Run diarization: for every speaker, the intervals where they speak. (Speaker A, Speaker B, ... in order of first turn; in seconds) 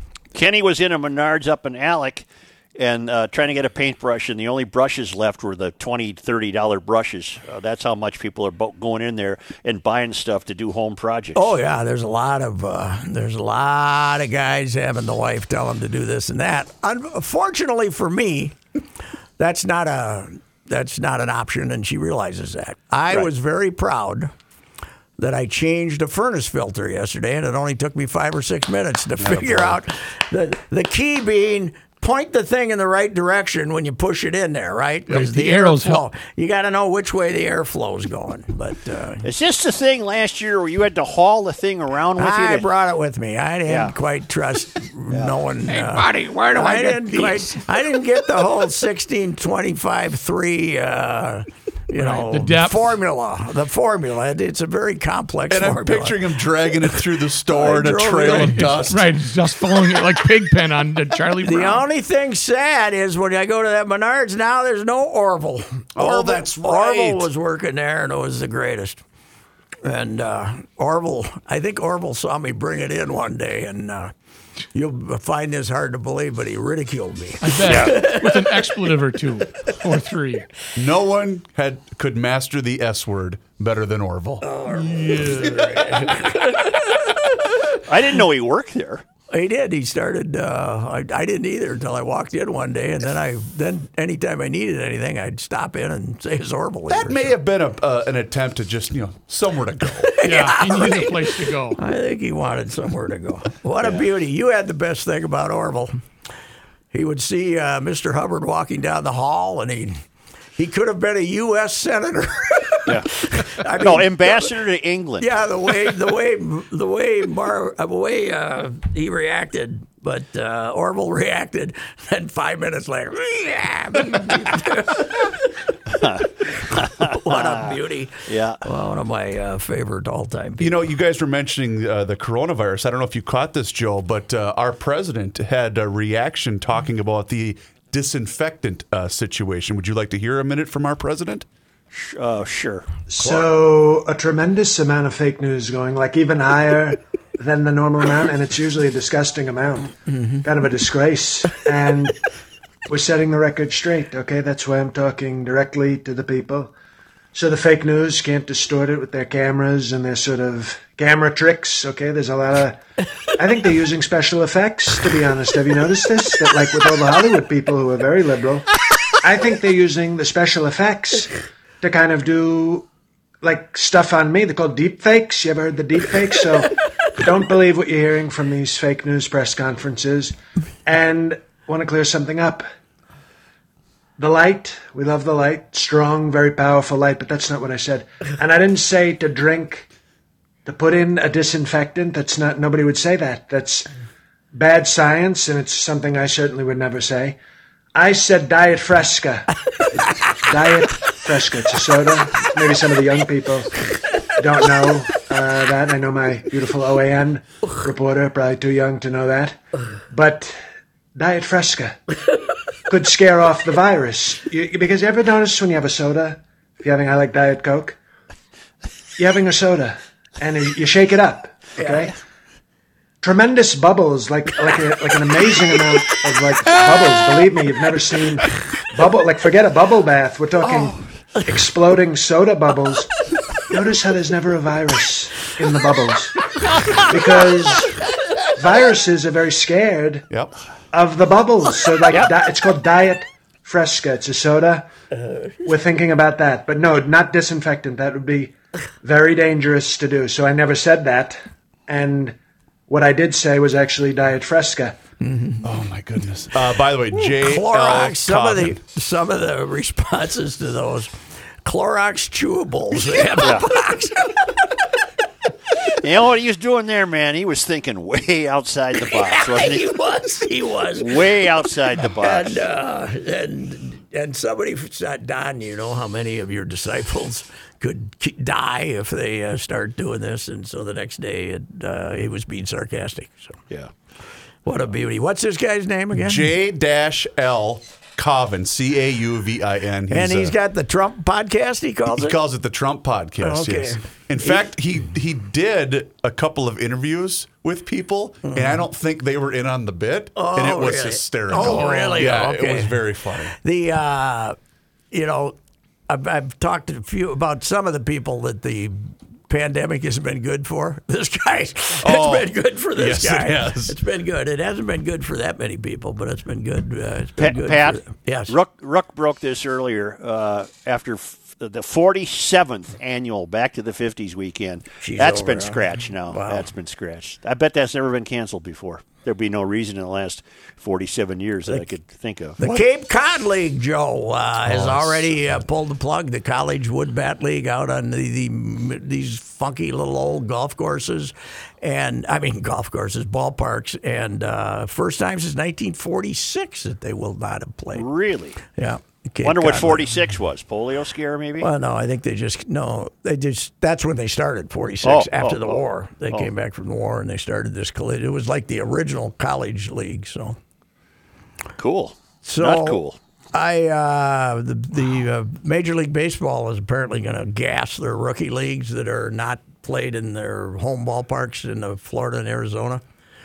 Speaker A: 0.3-11.5, 39.2-42.7, 43.7-43.9, 45.1-45.4, 77.7-78.0, 87.8-89.0, 112.8-113.1, 113.6-115.3, 125.9-127.8, 128.3-128.6, 141.9-142.8, 263.4-263.7, 265.9-269.9, 270.9-272.6, 317.4-332.6, 347.9-348.6, 349.4-351.7, 355.0-355.8, 361.8-363.2
Speaker B: 11.3-18.6, 19.4-24.3, 25.2-39.2, 42.2-58.9, 61.4-69.0, 69.8-74.1, 74.7-78.9, 84.4-87.3, 89.3-97.3, 100.0-105.9, 106.9-110.0, 110.5-114.5, 115.2-125.5, 126.5-130.9, 143.2-143.5, 150.1-150.4, 255.2-255.6, 257.1-261.1, 261.6-264.6, 269.0-283.6, 284.6-286.5, 290.1-292.4, 293.4-294.7, 298.5-298.8, 300.4-304.6, 305.1-305.6, 306.1-318.5, 325.0-326.7, 332.6-348.1, 348.8-350.1, 351.6-360.6, 362.4-363.0, 363.5-373.0
Speaker C: 29.2-29.8, 55.5-59.1, 66.0-67.3, 80.8-86.1, 96.9-100.2, 130.6-141.4, 255.6-258.8, 286.1-290.5, 292.1-303.5, 312.0-313.9, 334.6-335.3
Speaker D: 35.1-36.0, 45.7-47.5, 51.9-52.8, 58.2-61.8, 77.4-80.5, 100.2-101.8
Speaker E: 143.1-152.2, 152.9-156.7, 157.3-162.8, 163.3-172.9, 173.4-180.3, 180.8-182.7, 184.2-189.9, 190.6-193.9, 194.5-197.4, 197.9-199.6, 200.3-203.8, 204.3-209.6, 210.1-210.6, 211.2-212.0, 212.9-218.0, 219.2-222.1, 223.2-237.9, 238.5-240.3, 240.9-244.9, 245.6-252.4, 252.9-254.9